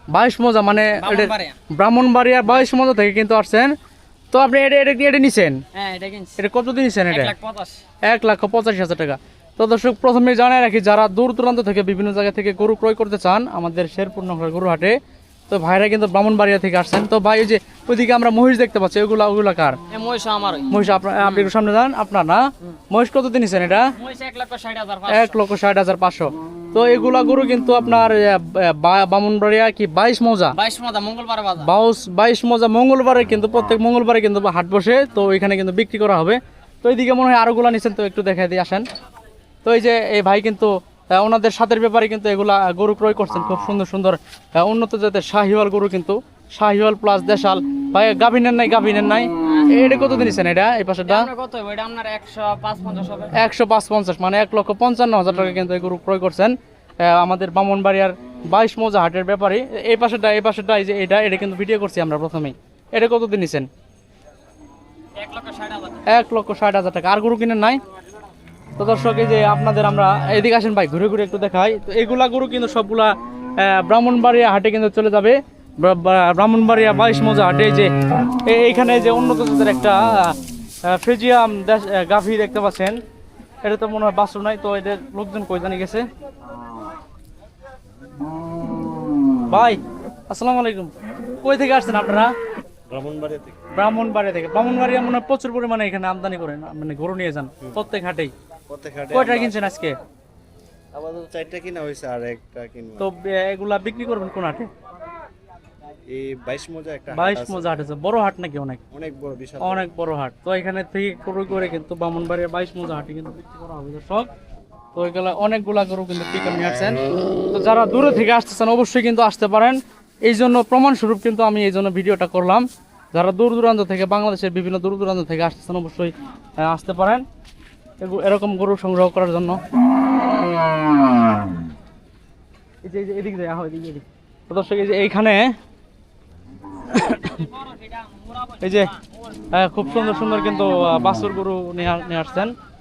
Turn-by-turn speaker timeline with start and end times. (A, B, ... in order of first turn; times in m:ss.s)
0:00.1-0:03.7 A
0:01.0-0:01.6 B
0:04.3-0:05.6 A
0:05.7-0:06.4 B
0:06.4-0:07.3 A
0:07.1-0:07.8 B
0:08.0-0:15.0 A
0:15.5-0:19.8 A
0:19.9-0:21.5 B
0:20.7-0:23.9 A
0:24.0-0:25.4 B
0:25.1-0:30.6 A
0:30.6-0:31.7 B
0:31.6-0:38.8 A
0:39.6-0:51.3 A
0:49.4-0:49.8 B
0:51.1-0:53.4 B
0:53.3-1:03.7 A
1:05.2-1:06.1 B
1:06.1-1:07.8 A
1:08.8-1:17.9 A
1:18.4-1:23.0 A
1:23.6-1:26.1 A
1:29.5-1:32.3 A
1:32.9-1:33.7 C
1:33.7-1:38.3 A
1:38.7-1:39.7 C
1:39.1-1:40.0 A
1:40.9-1:43.1 C
1:43.0-1:44.7 A
1:46.1-1:47.8 C
1:47.1-1:48.8 A
1:48.9-1:49.9 C
1:49.6-1:54.3 A
1:55.0-2:07.2 A
2:08.0-2:09.6 A
2:12.8-2:15.6 A
2:16.9-2:17.5 A
2:17.3-2:18.6 B
2:18.6-2:19.0 A
2:19.5-2:22.5 A